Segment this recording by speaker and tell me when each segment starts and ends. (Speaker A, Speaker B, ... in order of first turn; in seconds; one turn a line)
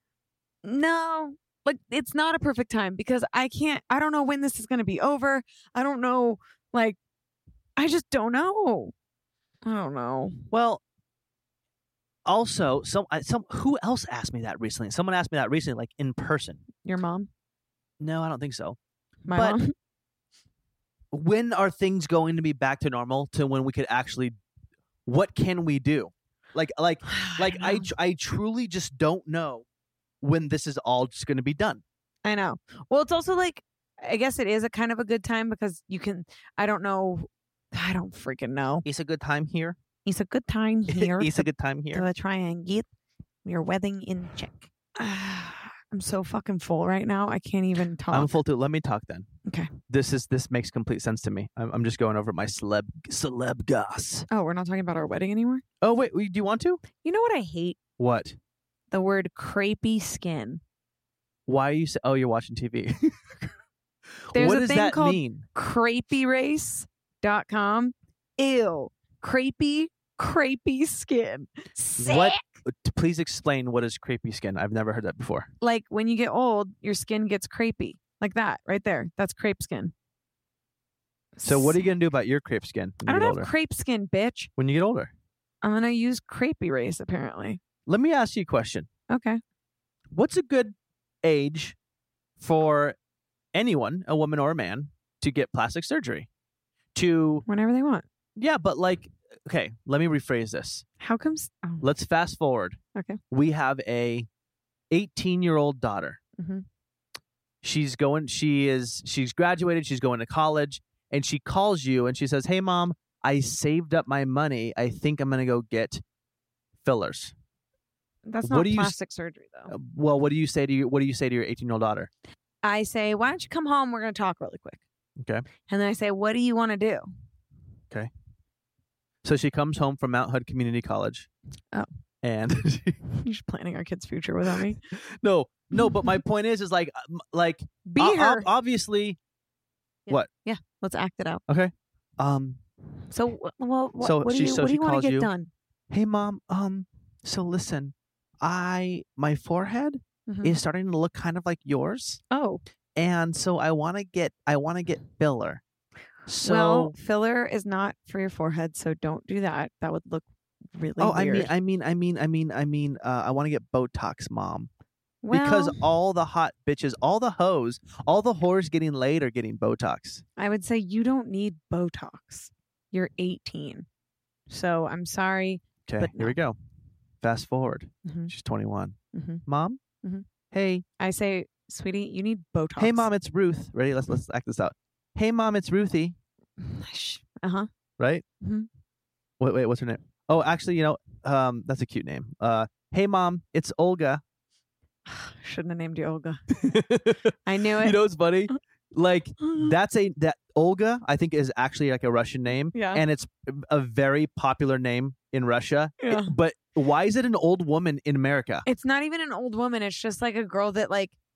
Speaker A: 0.6-7.0
Speaker A: 7.8-8.9
Speaker A: 9.6-10.4
Speaker B: 10.5-10.8
Speaker B: 12.2-16.6
Speaker A: 16.8-17.3
Speaker B: 18.0-18.8
Speaker A: 19.3-19.7
Speaker B: 19.3-19.6
Speaker B: 21.1-24.3
Speaker B: 25.1-29.6
Speaker A: 27.1-27.9
Speaker B: 30.2-31.8
Speaker A: 32.2-38.8
Speaker B: 38.8-39.8
Speaker A: 40.0-42.9
Speaker B: 40.9-42.0
Speaker A: 43.4-48.3
Speaker B: 48.1-49.3
Speaker A: 49.5-49.7
Speaker B: 49.9-54.3
Speaker A: 54.3-55.6
Speaker B: 55.8-56.8
Speaker A: 57.0-57.8
Speaker B: 58.0-58.4
Speaker A: 58.9-60.6
Speaker B: 61.5-63.2
Speaker B: 64.3-65.5
Speaker A: 64.3-72.4
Speaker B: 72.0-75.5
Speaker A: 75.6-79.9
Speaker A: 81.3-81.9
Speaker B: 81.4-83.5
Speaker A: 83.0-84.5
Speaker B: 84.6-85.1
Speaker A: 85.6-87.6
Speaker B: 87.9-88.9
Speaker A: 89.1-89.4
Speaker B: 90.1-91.8
Speaker B: 92.4-93.0
Speaker B: 93.5-96.3
Speaker B: 96.9-97.4
Speaker A: 97.5-98.0
Speaker B: 98.4-100.8
Speaker A: 101.0-101.8
Speaker B: 101.8-102.8
Speaker B: 103.3-104.3
Speaker B: 104.9-106.2
Speaker A: 106.4-106.6
Speaker B: 107.6-116.0
Speaker B: 116.8-117.3
Speaker A: 118.3-119.7
Speaker B: 118.4-118.9
Speaker B: 119.7-122.1
Speaker A: 122.6-124.8
Speaker B: 125.2-125.4
Speaker A: 125.7-127.0
Speaker B: 129.2-131.3
Speaker B: 132.2-133.0
Speaker A: 133.1-134.8
Speaker B: 134.9-139.2
Speaker A: 135.8-136.1
Speaker A: 137.8-138.5
Speaker A: 140.1-141.4
Speaker B: 141.5-142.6
Speaker A: 143.1-145.5
Speaker B: 144.0-145.3
Speaker B: 145.9-152.2
Speaker A: 150.3-150.6
Speaker A: 152.3-152.6
Speaker B: 152.9-155.6
Speaker B: 156.3-156.9
Speaker A: 156.4-161.5
Speaker B: 161.0-164.7
Speaker A: 165.2-165.8
Speaker B: 165.3-170.2
Speaker A: 170.4-173.8
Speaker A: 174.5-176.3
Speaker B: 175.9-176.6
Speaker B: 177.2-179.8
Speaker A: 178.0-178.3
Speaker A: 179.1-179.4
Speaker B: 180.5-180.8
Speaker A: 181.0-183.1
Speaker B: 182.8-186.2
Speaker A: 186.6-187.7
Speaker B: 188.0-188.2
Speaker A: 188.4-188.7
Speaker B: 189.4-194.2
Speaker A: 195.1-196.5
Speaker B: 196.6-208.6
Speaker A: 197.4-198.0
Speaker A: 199.4-199.7
Speaker A: 202.7-203.0
Speaker A: 206.0-206.3
Speaker A: 208.7-211.1